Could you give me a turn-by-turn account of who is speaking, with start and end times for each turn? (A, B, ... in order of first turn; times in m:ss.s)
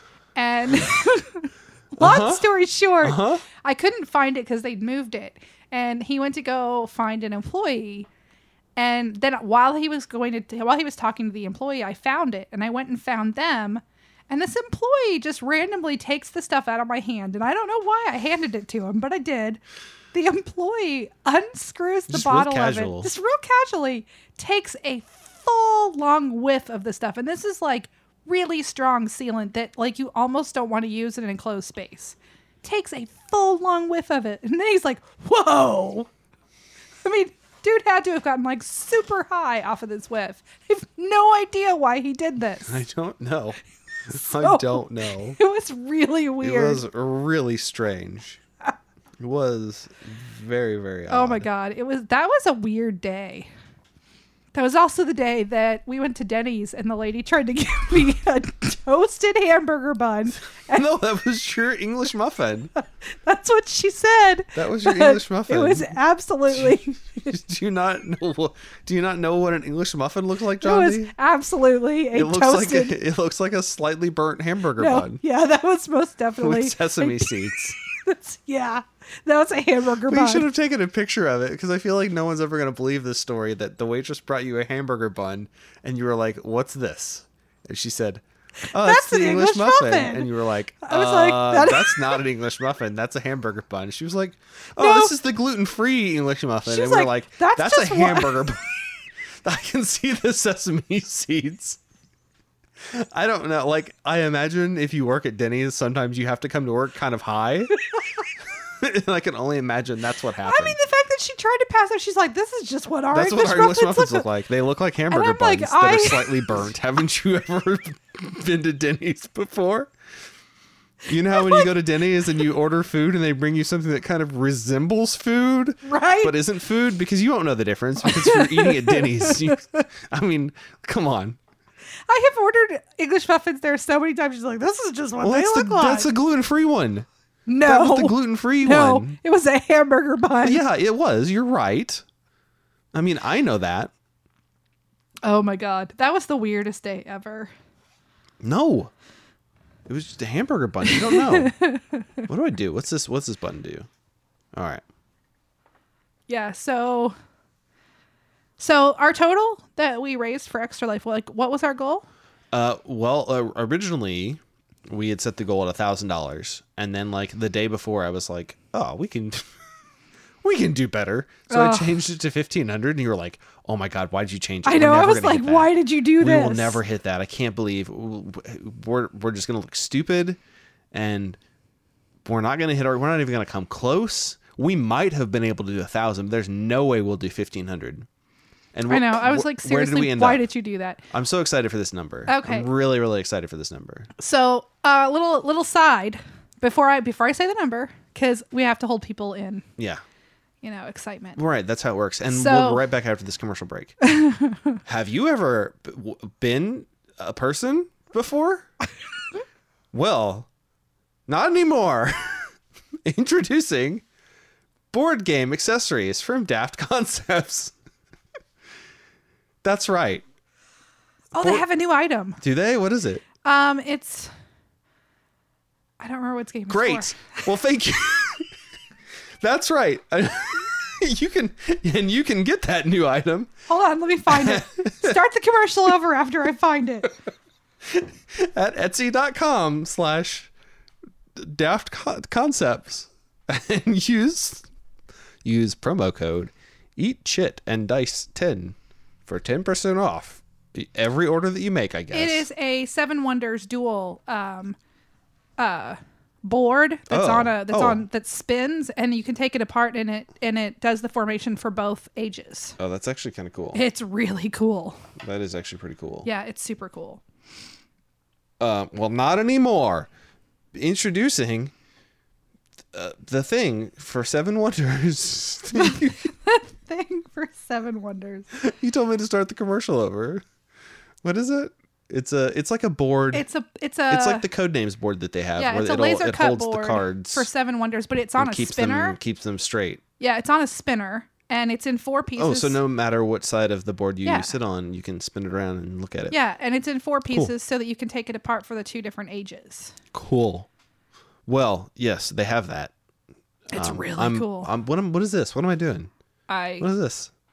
0:00.4-0:08.1 A
0:02.0-0:02.5 B
0:03.0-0:03.4 B
0:08.8-0:19.6 A
0:20.1-0:36.1 A
0:22.1-0:23.1 B
0:37.0-0:42.8 A
0:42.6-0:45.4 B
0:44.1-0:46.8 A
0:46.4-0:48.4 B
0:49.2-0:51.4 B
0:51.1-0:53.5 A
0:54.5-1:00.8 A
1:00.7-1:02.7 B
1:02.8-1:07.3 A
1:04.5-1:06.0 B
1:06.5-1:11.1 B
1:10.6-1:13.0 A
1:12.1-1:15.2 B
1:14.8-1:20.5 A
1:16.4-1:17.8 B
1:20.1-1:38.9 B
1:28.6-1:30.3 A
1:30.8-1:32.2 A
1:34.8-1:35.1 A
1:36.6-1:38.5 A
1:39.4-1:41.8 B
1:42.9-1:47.8 B
1:48.6-1:50.8 B
1:50.4-1:54.3 A
1:53.1-1:59.9 B
1:55.1-1:56.7 A
2:01.0-2:11.4 B
2:01.3-2:01.7 A
2:05.8-2:06.4 A
2:08.0-2:09.8 A
2:12.1-2:16.1 A
2:15.2-2:17.0 B
2:17.5-2:20.6 A
2:17.6-2:19.2 B
2:20.4-2:22.0 B
2:22.9-2:23.9 B
2:25.2-2:27.5 A
2:28.4-2:28.9 B
2:29.8-2:31.5 B
2:30.8-2:32.2 A
2:32.3-2:33.9 B
2:34.5-2:34.8 B
2:36.3-2:37.1 A
2:38.6-2:42.0 A
2:42.5-2:49.5 B
2:50.4-3:00.4 B
2:51.5-2:52.0 A
2:54.6-2:56.8 A
3:00.9-3:01.4 B
3:02.2-3:08.1 B
3:08.7-3:10.4 B
3:08.9-3:11.0 A
3:11.1-3:14.1 B
3:12.3-3:12.7 A
3:14.2-3:19.6 A
3:19.8-3:20.0 B
3:20.6-3:21.4 A
3:21.4-3:24.0 B
3:22.3-3:22.8 A
3:24.0-3:24.8 A
3:24.8-3:28.7 B
3:29.9-3:30.5 B
3:31.3-3:32.5 B
3:33.0-3:34.0 B
3:34.9-3:37.7 B
3:39.6-3:40.2 B
3:41.3-3:42.4 A
3:41.4-3:41.6 B
3:42.4-3:43.2 B
3:43.4-3:44.3 A
3:46.0-3:47.5 A
3:46.7-3:48.5 B
3:49.4-3:53.5 B
3:53.7-3:57.2 A
3:54.3-3:55.2 B
3:57.8-4:00.5 B
4:01.4-4:04.7 B
4:05.4-4:08.8 B
4:09.3-4:12.5 B
4:12.1-4:14.8 A
4:15.6-4:22.8 A
4:17.1-4:18.0 B
4:22.8-4:23.8 B
4:23.7-4:25.0 A
4:25.2-4:26.3 B
4:26.2-4:27.2 A
4:28.6-4:30.1 B
4:30.7-4:31.7 B
4:32.9-4:36.2 B
4:35.8-4:38.5 A
4:38.5-4:40.4 B
4:41.2-4:43.4 B
4:43.3-4:44.4 A
4:44.1-4:47.5 B
4:45.6-4:49.2 A
4:48.4-4:50.0 B
4:50.2-4:52.8 A
4:52.4-4:56.4 B
4:54.2-4:54.6 A
4:56.3-5:00.0 A
5:00.1-5:00.7 B
5:01.4-5:02.9 B
5:03.7-5:04.7 A
5:03.7-5:06.1 B
5:06.5-5:06.9 A
5:06.8-5:07.3 B